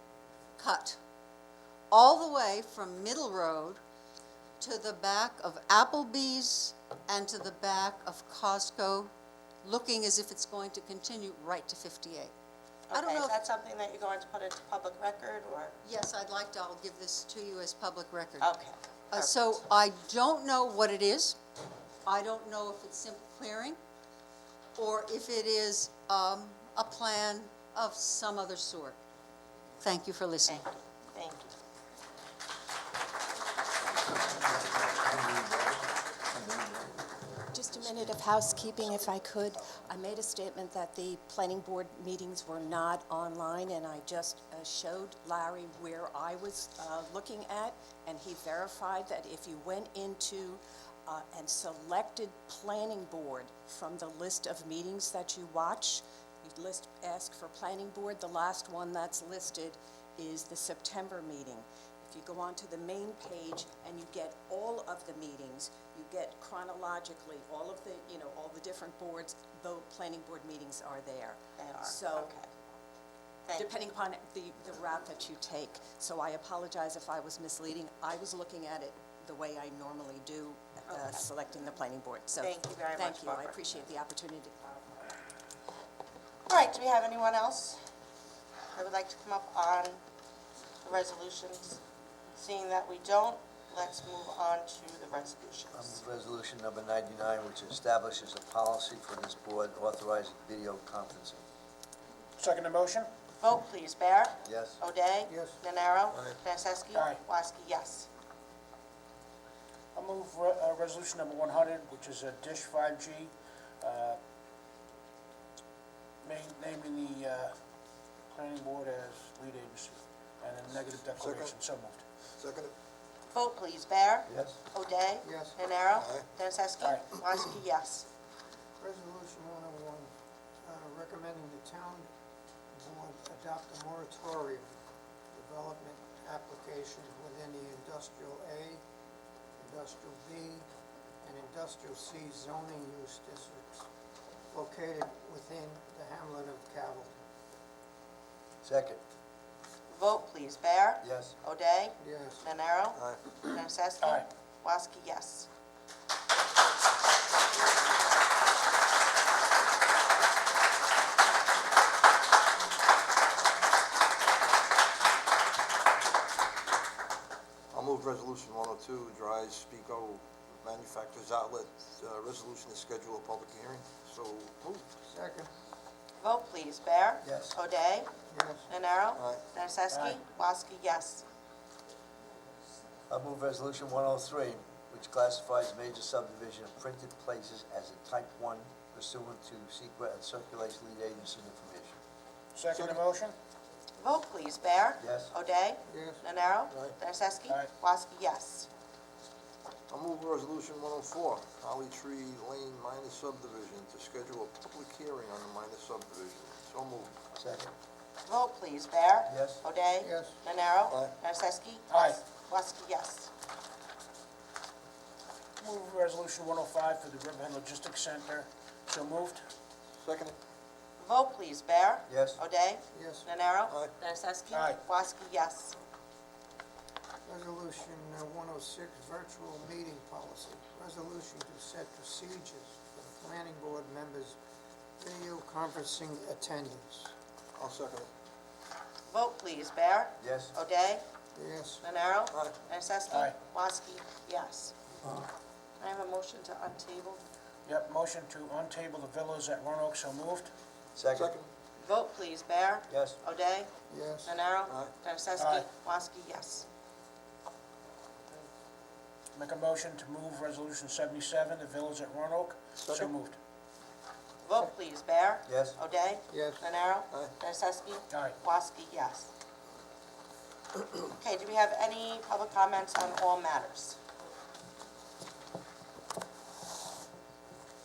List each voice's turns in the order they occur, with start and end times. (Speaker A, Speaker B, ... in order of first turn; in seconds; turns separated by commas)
Speaker A: 0.6-1.0, Speaker A: 1.9-3.8, Speaker A: 4.6-9.1, Speaker A: 9.6-12.3, Speaker B: 12.9-15.8, Speaker A: 12.9-13.3, Speaker A: 15.8-18.5, Speaker B: 18.4-19.5, Speaker A: 19.1-21.4, Speaker A: 22.1-23.8, Speaker A: 24.8-29.0, Speaker A: 29.8-30.6, Speaker B: 30.5-31.5, Speaker C: 35.3-35.6, Speaker D: 37.5-72.3, Speaker B: 71.6-72.5, Speaker B: 73.4-73.7, Speaker D: 73.5-84.7, Speaker B: 80.9-81.2, Speaker B: 82.4-83.6, Speaker B: 86.5-87.8, Speaker B: 88.7-90.0, Speaker B: 90.8-91.8, Speaker B: 92.3-96.0, Speaker C: 95.7-101.4, Speaker E: 102.4-103.1, Speaker B: 103.4-108.1, Speaker C: 104.4-104.8, Speaker F: 105.2-105.6, Speaker G: 106.1-106.4, Speaker E: 106.9-107.2, Speaker E: 109.9-114.2, Speaker E: 116.2-117.5, Speaker E: 118.3-122.0, Speaker G: 120.7-121.6, Speaker G: 122.4-122.7, Speaker B: 123.3-128.1, Speaker C: 124.3-124.6, Speaker F: 125.2-125.6, Speaker G: 125.9-126.3, Speaker E: 126.8-127.1, Speaker F: 128.8-130.1, Speaker F: 130.6-132.1, Speaker F: 132.7-134.7, Speaker F: 135.3-138.8, Speaker F: 139.6-140.7, Speaker F: 141.2-143.9, Speaker F: 144.5-147.2, Speaker C: 148.6-149.0, Speaker B: 149.9-155.5, Speaker C: 151.0-151.3, Speaker F: 152.0-152.4, Speaker G: 152.9-153.2, Speaker E: 154.0-154.3, Speaker G: 167.7-174.9, Speaker F: 175.1-175.5, Speaker B: 176.2-181.2, Speaker C: 177.2-177.6, Speaker F: 178.3-178.7, Speaker G: 179.2-179.4, Speaker E: 179.9-180.2, Speaker C: 183.1-192.0, Speaker E: 192.5-193.3, Speaker G: 192.7-193.0, Speaker B: 194.0-198.7, Speaker C: 195.0-195.3, Speaker F: 195.9-196.2, Speaker G: 196.7-196.9, Speaker E: 197.5-197.7, Speaker G: 199.9-207.2, Speaker C: 207.3-207.7, Speaker B: 208.3-213.3, Speaker C: 209.3-209.6, Speaker F: 210.0-210.4, Speaker G: 210.9-211.1, Speaker E: 211.9-212.2, Speaker E: 215.6-219.4, Speaker G: 220.0-220.3, Speaker B: 221.0-225.8, Speaker C: 222.1-222.4, Speaker F: 222.9-223.3, Speaker G: 223.7-223.9, Speaker E: 224.5-224.8, Speaker F: 227.2-234.4, Speaker F: 235.0-237.1, Speaker G: 237.6-238.1, Speaker B: 239.1-241.0, Speaker C: 240.2-240.5, Speaker F: 241.3-241.8, Speaker B: 241.8-244.7, Speaker G: 242.3-242.6, Speaker E: 243.1-243.4, Speaker B: 245.8-247.2, Speaker E: 247.7-250.5, Speaker C: 250.9-251.3, Speaker G: 251.1-251.5, Speaker B: 251.8-253.7, Speaker C: 252.9-253.2, Speaker F: 253.9-254.3, Speaker B: 254.2-256.6, Speaker G: 254.7-254.9, Speaker E: 255.4-255.7, Speaker E: 259.3-263.4, Speaker G: 262.8-263.1, Speaker B: 264.4-269.3, Speaker C: 265.5-265.8, Speaker F: 266.3-266.6, Speaker E: 268.1-268.4, Speaker B: 271.1-274.0